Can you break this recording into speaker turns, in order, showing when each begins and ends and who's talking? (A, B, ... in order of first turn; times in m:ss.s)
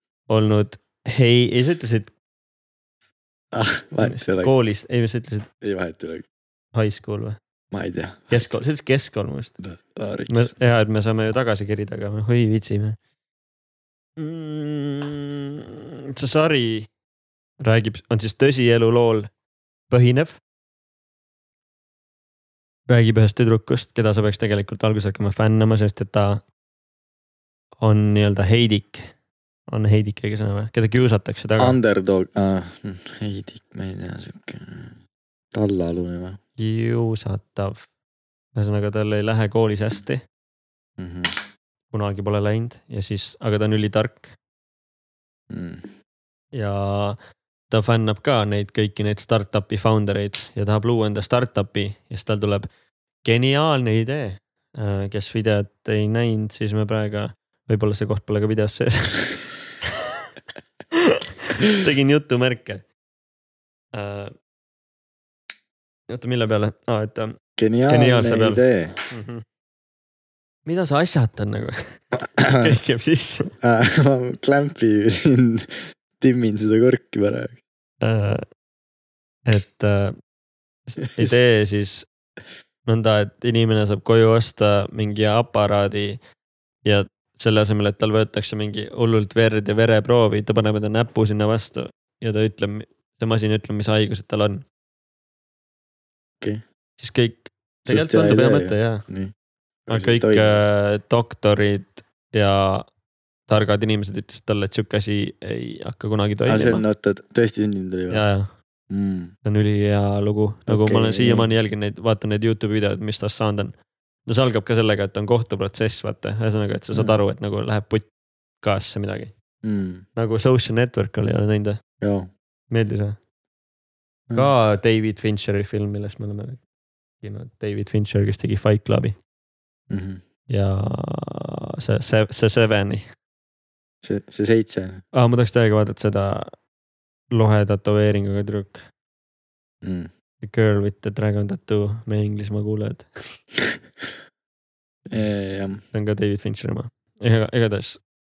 0:00.3-0:02.1 A
0:03.5-0:04.5 B
0:04.0-0:05.5 A
0:05.6-0:06.2 B
0:06.7-0:07.4 A
0:07.7-0:08.5 B
0:08.3-0:09.6 A
0:09.6-0:10.5 B
0:10.3-0:13.0 A
0:14.2-0:15.3 A
0:16.2-0:16.9 A
0:17.6-0:19.3 A
0:19.9-0:20.4 A
0:22.9-0:26.4 A
0:27.8-0:29.1 A
0:29.7-0:31.8 A
0:31.6-0:35.0 B
0:35.5-0:36.4 B
0:36.6-0:37.9 A
0:38.5-0:40.2 A
0:41.0-0:41.4 B
0:41.9-0:44.3 A
0:45.5-0:45.9 B
0:46.5-0:47.2 A
0:47.7-0:52.7 A
0:53.2-0:59.3 A
1:01.0-1:02.8 A
1:03.9-1:04.3 A
1:06.1-1:07.4 A
1:07.6-1:08.9 B
1:07.9-1:09.4 A
1:10.6-1:13.5 A
1:12.4-1:12.7 B
1:13.6-1:17.6 B
1:18.0-1:18.4 A
1:19.4-1:20.1 A
1:20.9-1:22.0 A
1:22.8-1:26.2 A
1:26.8-1:34.6 A
1:37.0-1:39.0 A
1:37.8-1:39.3 B
1:39.9-1:40.6 B
1:39.9-1:42.9 A
1:43.5-1:46.8 A
1:46.5-1:48.2 B
1:48.1-1:48.5 A
1:48.9-1:49.3 B
1:49.4-1:53.7 A
1:50.7-1:51.5 B
1:54.2-1:58.1 A
1:58.6-1:59.3 A
1:59.6-2:00.0 B
2:00.2-2:01.8 A
2:02.0-2:02.3 B
2:02.7-2:03.2 A
2:04.3-2:06.6 A
2:07.2-2:09.2 A
2:09.9-2:10.2 B
2:10.5-2:13.1 A
2:14.0-2:15.0 B
2:15.1-2:16.5 A
2:17.3-2:18.8 A
2:19.8-2:20.1 B
2:20.4-2:23.1 A
2:25.1-2:25.8 B
2:25.9-2:28.0 A